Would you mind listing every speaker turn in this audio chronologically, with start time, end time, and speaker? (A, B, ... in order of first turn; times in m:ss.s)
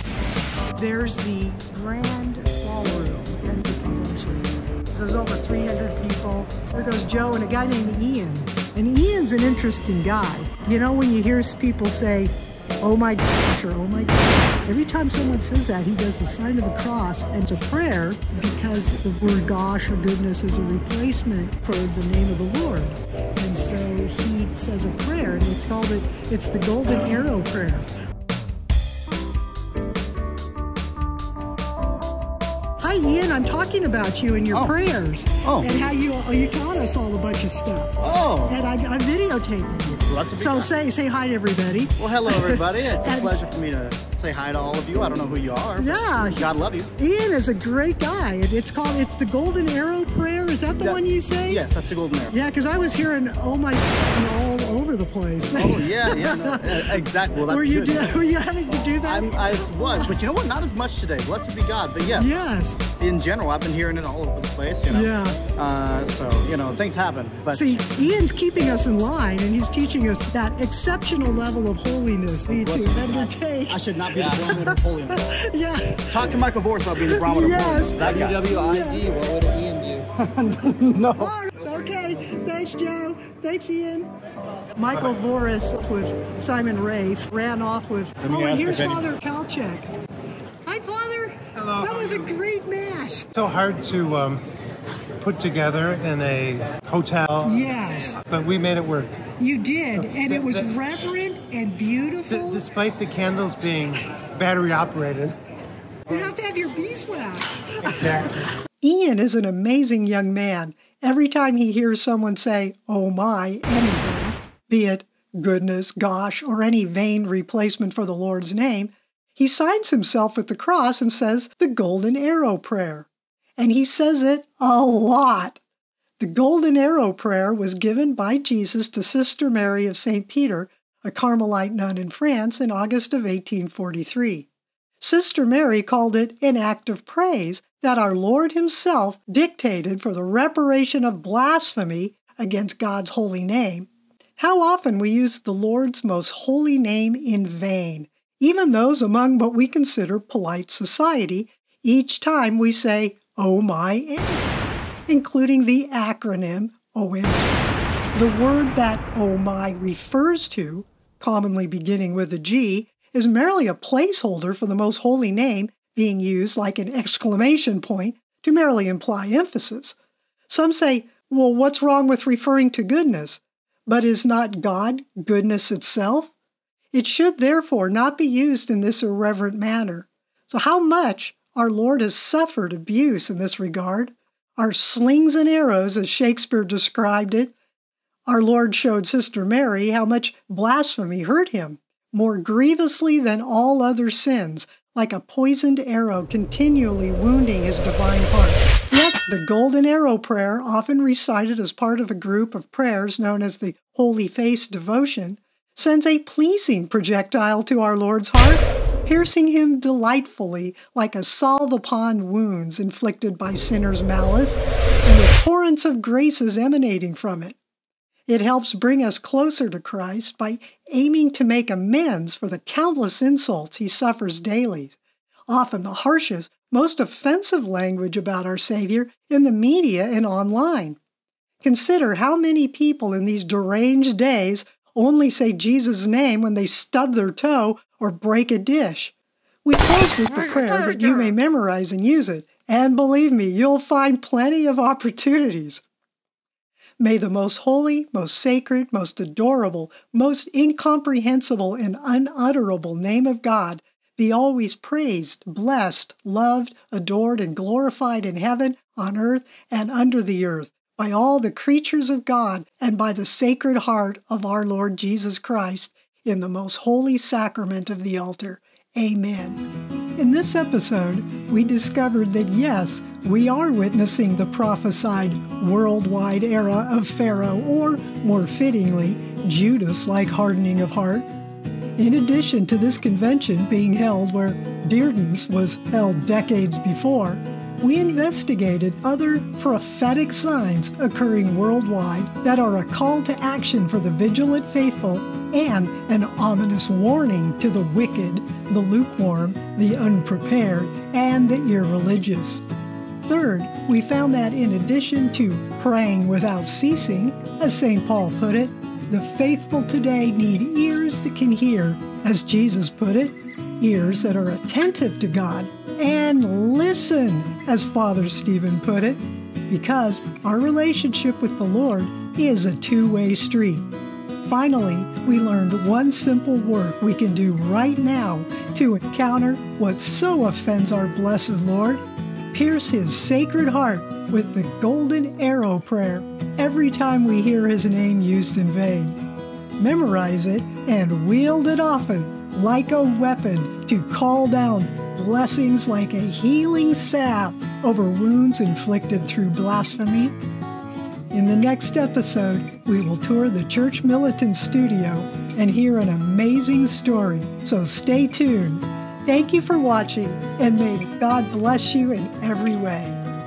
0:00.8-0:27.9 A
0:32.8-0:38.0 A
0:34.5-0:34.8 B
0:35.4-0:35.7 B
0:38.0-0:38.6 B
0:38.5-0:43.3 A
0:40.0-0:40.7 B
0:42.0-0:46.9 B
0:45.8-0:46.4 A
0:47.0-0:51.6 A
0:50.7-0:52.4 B
0:52.3-0:56.8 A
0:55.5-0:58.2 B
0:57.5-1:00.1 A
0:59.0-1:02.3 B
1:02.2-1:02.8 A
1:03.0-1:07.8 B
1:04.9-1:05.4 A
1:07.5-1:16.4 A
1:12.5-1:15.2 B
1:16.1-1:18.4 B
1:17.0-1:19.0 A
1:18.0-1:20.1 C
1:20.2-1:21.3 B
1:21.2-1:24.1 A
1:24.7-1:29.9 A
1:30.7-1:33.3 A
1:31.6-1:32.3 D
1:33.3-1:34.4 D
1:35.2-1:37.6 D
1:37.4-1:38.2 A
1:38.2-1:39.2 D
1:39.4-1:42.7 A
1:40.0-1:40.7 D
1:42.3-1:45.3 D
1:46.1-2:05.6 A
1:47.8-1:48.3 D
2:06.2-2:14.5 A
2:15.0-2:34.5 A
2:35.1-2:37.5 A
2:38.1-2:50.0 A
2:50.5-2:56.3 A
2:56.9-3:07.5 A
3:08.3-3:37.6 A
3:38.3-3:45.0 A
3:45.5-3:51.0 A
3:51.6-3:59.1 A
3:59.6-4:05.8 A
4:07.0-4:29.6 A
4:30.2-4:41.3 A
4:42.0-5:02.6 A
5:03.3-5:23.9 A
5:24.4-5:39.2 A
5:39.8-5:50.3 A
5:51.3-6:03.2 A